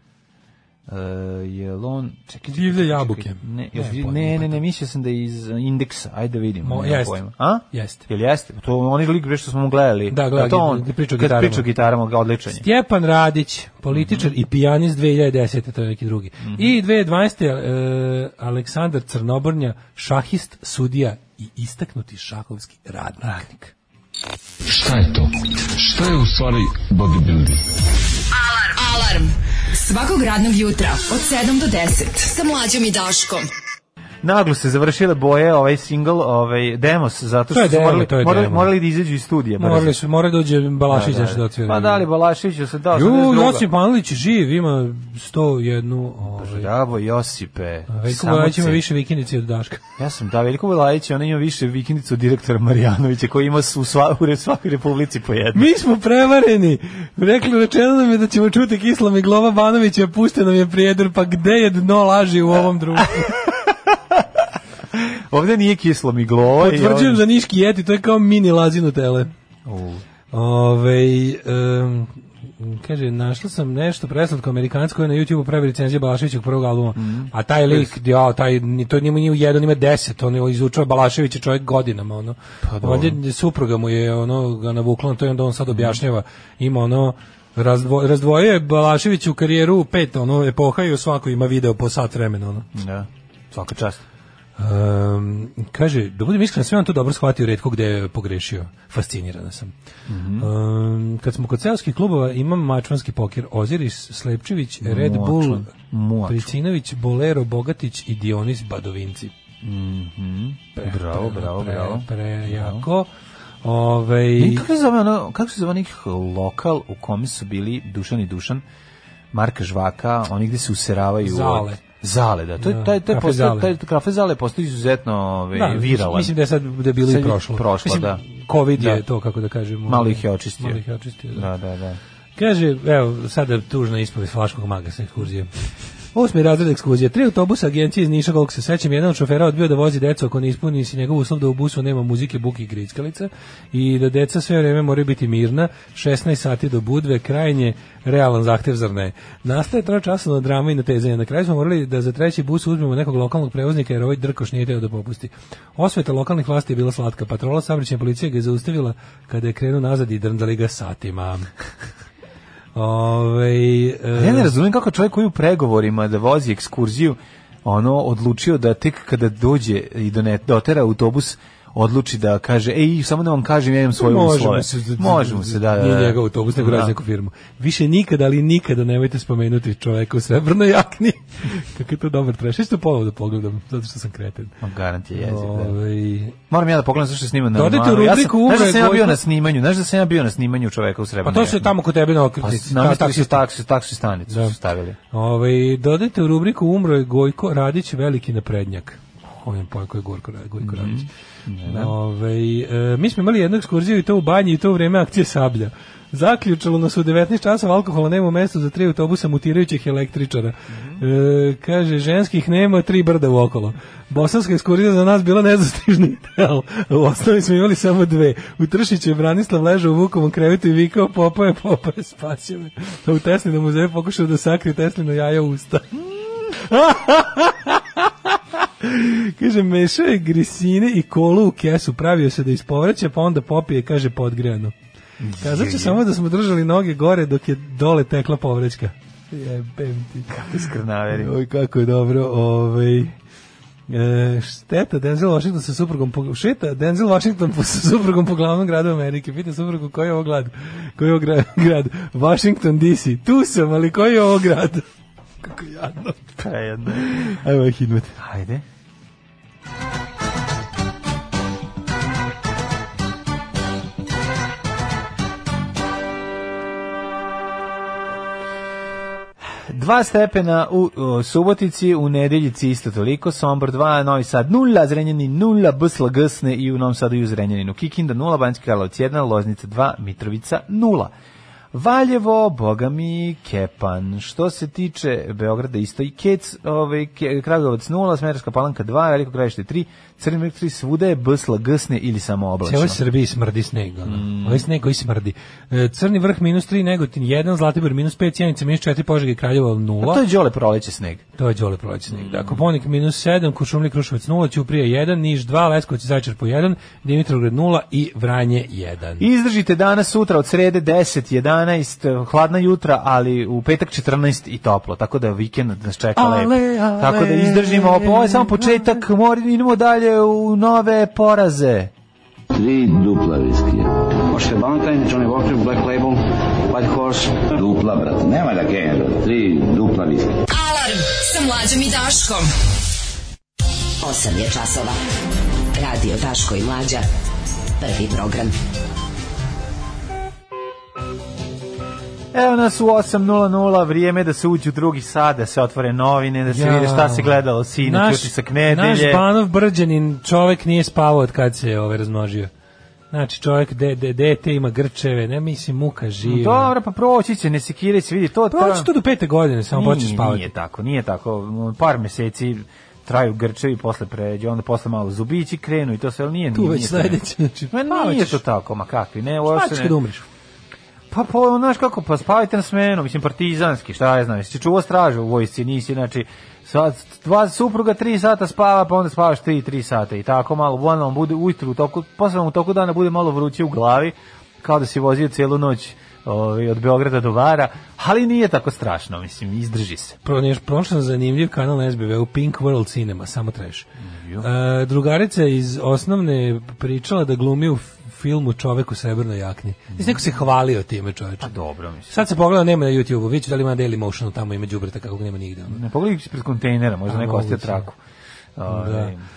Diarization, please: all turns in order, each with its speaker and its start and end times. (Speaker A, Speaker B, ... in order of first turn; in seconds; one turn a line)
Speaker A: 0.9-12.6
Speaker B: 2.5-4.6
Speaker B: 6.6-7.2
Speaker B: 7.7-8.0
Speaker B: 10.1-11.7
Speaker B: 12.5-23.7
Speaker A: 13.9-14.3
Speaker A: 16.4-16.7
Speaker A: 23.2-23.5
Speaker C: 24.7-27.6
Speaker D: 28.3-33.5
Speaker A: 34.2-40.0
Speaker B: 37.5-38.7
Speaker B: 39.6-42.0
Speaker A: 40.9-43.6
Speaker B: 42.9-46.7
Speaker A: 46.3-48.8
Speaker B: 47.9-49.8
Speaker A: 50.0-55.7
Speaker B: 55.5-63.4
Speaker A: 63.0-63.5
Speaker A: 65.0-67.2
Speaker B: 66.6-69.3
Speaker A: 69.7-70.0
Speaker B: 70.3-92.7
Speaker A: 77.0-77.9
Speaker A: 82.6-83.2
Speaker A: 85.7-86.0
Speaker A: 92.7-94.0
Speaker B: 94.6-99.7
Speaker A: 100.1-100.5
Speaker B: 100.4-105.7
Speaker A: 104.8-106.5
Speaker B: 106.3-109.3
Speaker A: 109.6-112.8
Speaker B: 110.8-113.1
Speaker B: 113.6-114.7
Speaker A: 114.4-118.6
Speaker A: 119.3-126.3
Speaker B: 121.2-121.8
Speaker B: 122.6-123.7
Speaker B: 125.5-131.5
Speaker A: 127.0-128.2
Speaker A: 128.8-129.0
Speaker A: 129.8-130.8
Speaker A: 131.3-132.0
Speaker B: 132.4-135.5
Speaker B: 136.1-161.5
Speaker B: 162.7-164.5
Speaker A: 164.1-176.9
Speaker B: 174.0-184.5
Speaker A: 184.6-185.7
Speaker B: 185.1-186.4
Speaker A: 186.5-191.7
Speaker B: 187.5-189.2
Speaker B: 191.2-193.4
Speaker A: 192.4-195.0
Speaker B: 194.3-194.6
Speaker B: 195.1-201.1
Speaker A: 200.6-201.9
Speaker B: 201.7-226.0
Speaker A: 210.7-211.0
Speaker B: 226.5-234.7
Speaker A: 235.2-236.0
Speaker B: 235.4-240.4
Speaker A: 240.3-241.3
Speaker B: 241.1-243.1
Speaker B: 243.9-254.8
Speaker B: 255.4-258.2
Speaker A: 256.4-257.3
Speaker A: 258.2-258.6
Speaker A: 269.7-281.1
Speaker A: 281.7-293.0
Speaker B: 292.6-300.2
Speaker A: 294.1-294.6
Speaker A: 300.0-301.2
Speaker B: 301.4-309.2
Speaker A: 302.1-302.6
Speaker A: 309.2-321.9
Speaker B: 316.1-319.0
Speaker E: 322.5-330.3
Speaker D: 330.5-332.5
Speaker F: 334.0-335.0
Speaker F: 335.7-337.1
Speaker F: 337.8-338.5
Speaker A: 342.3-349.2
Speaker B: 346.5-352.5
Speaker B: 353.1-356.7
Speaker A: 356.2-358.9
Speaker B: 358.5-360.5
Speaker A: 359.7-367.2
Speaker B: 366.5-368.4
Speaker A: 367.7-370.0
Speaker B: 369.4-370.2
Speaker A: 371.1-390.2
Speaker B: 390.2-393.9
Speaker A: 394.0-394.5
Speaker B: 394.4-401.5
Speaker A: 399.9-400.3
Speaker A: 401.4-402.2
Speaker B: 402.1-405.8
Speaker A: 405.7-407.9
Speaker B: 407.1-407.9
Speaker A: 408.6-409.2
Speaker B: 408.7-409.1